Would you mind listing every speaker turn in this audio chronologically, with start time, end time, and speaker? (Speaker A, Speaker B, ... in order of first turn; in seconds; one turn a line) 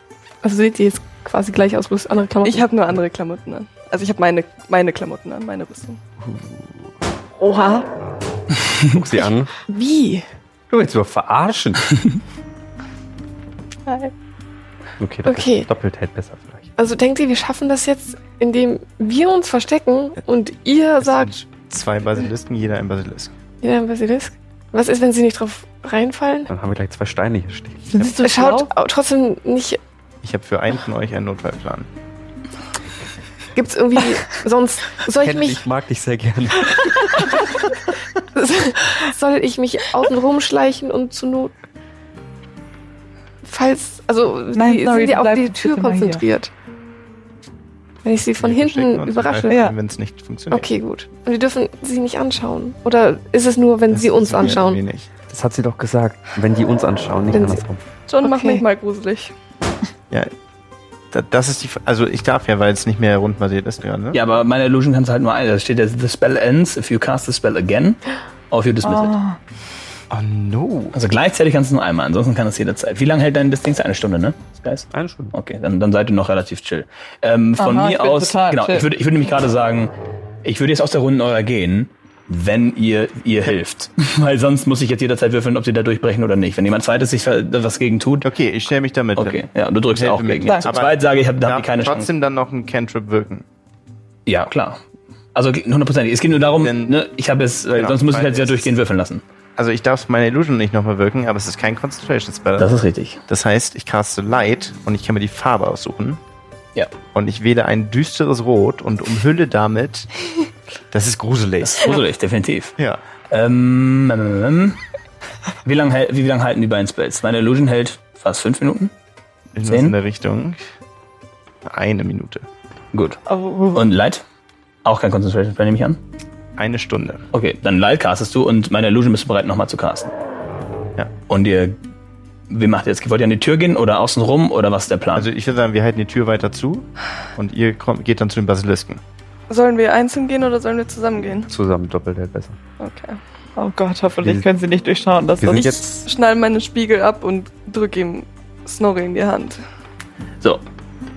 Speaker A: 0.4-2.7
Speaker B: 2.4-6.0
Speaker C: 6.2-6.6
Speaker A: 7.4-7.8
Speaker C: 8.9-9.5
Speaker A: 9.2-10.3
Speaker C: 10.7-11.9
Speaker B: 13.9-14.1
Speaker C: 15.0-16.7
Speaker A: 15.2-15.7
Speaker A: 16.8-21.3
Speaker D: 21.0-23.3
Speaker A: 23.6-26.5
Speaker C: 26.5-28.0
Speaker E: 27.9-28.7
Speaker A: 28.0-29.8
Speaker D: 30.2-31.9
Speaker A: 33.5-35.6
Speaker C: 35.2-37.1
Speaker A: 37.0-37.6
Speaker A: 38.3-41.5
Speaker A: 43.4-46.5
Speaker E: 44.5-46.2
Speaker A: 48.0-49.6
Speaker D: 48.4-50.7
Speaker E: 49.5-49.7
Speaker A: 50.5-54.8
Speaker D: 53.9-55.1
Speaker C: 55.3-57.8
Speaker A: 57.3-57.6
Speaker B: 58.1-59.3
Speaker A: 58.2-58.6
Speaker D: 61.1-64.2
Speaker F: 64.1-69.1
Speaker E: 68.8-69.4
Speaker D: 70.1-70.9
Speaker F: 70.9-79.9
Speaker C: 74.9-75.3
Speaker E: 77.6-78.8
Speaker F: 80.4-88.3
Speaker D: 88.2-93.4
Speaker F: 89.2-92.1
Speaker E: 90.5-90.7
Speaker F: 94.2-94.8
Speaker F: 95.3-99.2
Speaker D: 96.6-96.9
Speaker D: 97.8-98.7
Speaker D: 99.6-102.7
Speaker F: 102.6-103.2
Speaker D: 103.3-106.2
Speaker D: 107.1-110.1
Speaker D: 110.9-112.0
Speaker F: 111.6-112.7
Speaker F: 113.3-114.8
Speaker F: 115.6-118.9
Speaker D: 119.5-120.6
Speaker F: 119.6-120.0
Speaker D: 121.7-122.5
Speaker F: 122.9-123.2
Speaker E: 123.3-123.8
Speaker F: 123.7-124.2
Speaker F: 124.8-126.0
Speaker D: 126.6-127.2
Speaker F: 127.3-130.1
Speaker F: 131.3-131.8
Speaker F: 132.5-135.3
Speaker D: 135.1-139.0
Speaker B: 139.5-141.5
Speaker C: 141.5-142.6
Speaker B: 142.8-143.2
Speaker E: 143.6-145.8
Speaker C: 145.4-146.1
Speaker B: 145.6-149.6